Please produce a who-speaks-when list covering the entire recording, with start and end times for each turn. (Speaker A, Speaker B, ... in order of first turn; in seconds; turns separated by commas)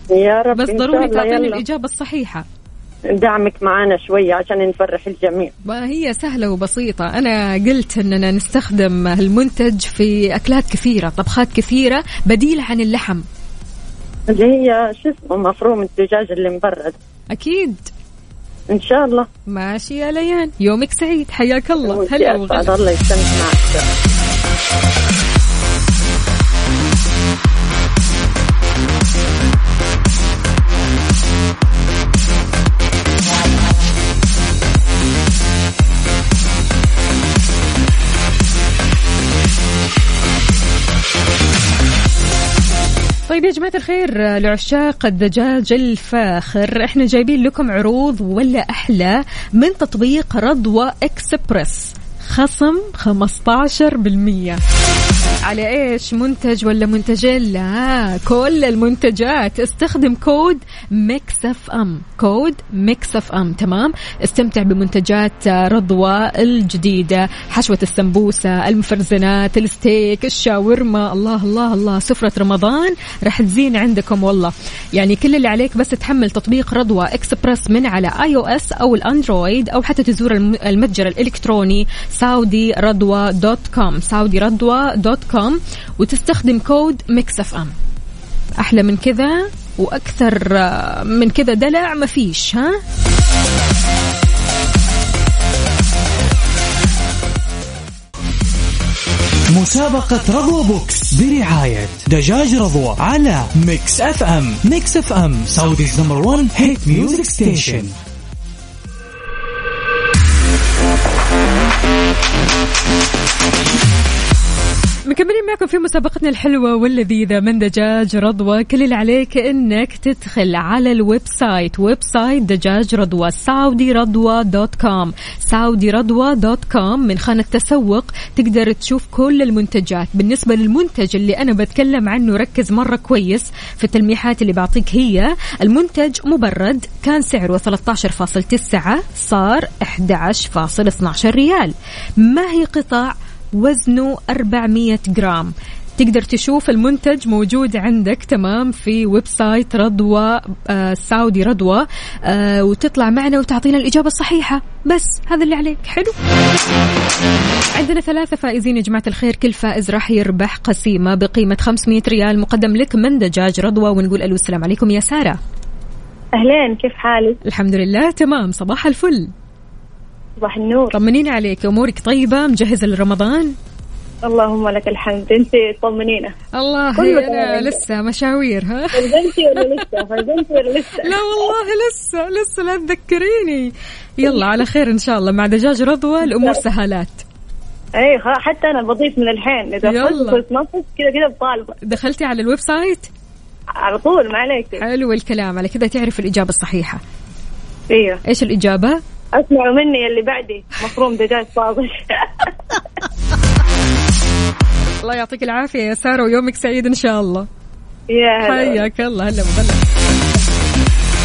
Speaker A: 0.1-1.6, Speaker B: 0.5-2.5, Speaker A: 3.1-5.5, Speaker B: 5.6-13.2, Speaker A: 14.3-16.9, Speaker B: 17.3-17.9, Speaker A: 18.7-19.3, Speaker B: 19.5-22.7, Speaker A: 21.8-23.8, Speaker B: 43.3-54.6, Speaker B: 55.4-87.7, Speaker B: 88.6-92.8, Speaker C: 99.5-107.9, Speaker B: 115.1-156.2, Speaker B: 157.7-165.4, Speaker D: 166.4-167.4, Speaker B: 167.4-169.3, Speaker D: 170.4-171.0, Speaker B: 170.9-173.5, Speaker D: 174.2-176.3, Speaker B: 176.5-180.1, Speaker D: 176.9-177.8, Speaker D: 178.9-181.2, Speaker B: 181.0-187.2, Speaker D: 188.0-191.8, Speaker B: 189.8-190.4, Speaker B: 191.8-193.1, Speaker D: 193.8-194.8, Speaker B: 194.8-197.0, Speaker D: 197.9-198.2, Speaker B: 198.2-199.0, Speaker D: 199.3-202.4, Speaker B: 205.0-207.5, Speaker D: 208.1-208.8, Speaker B: 208.4-209.8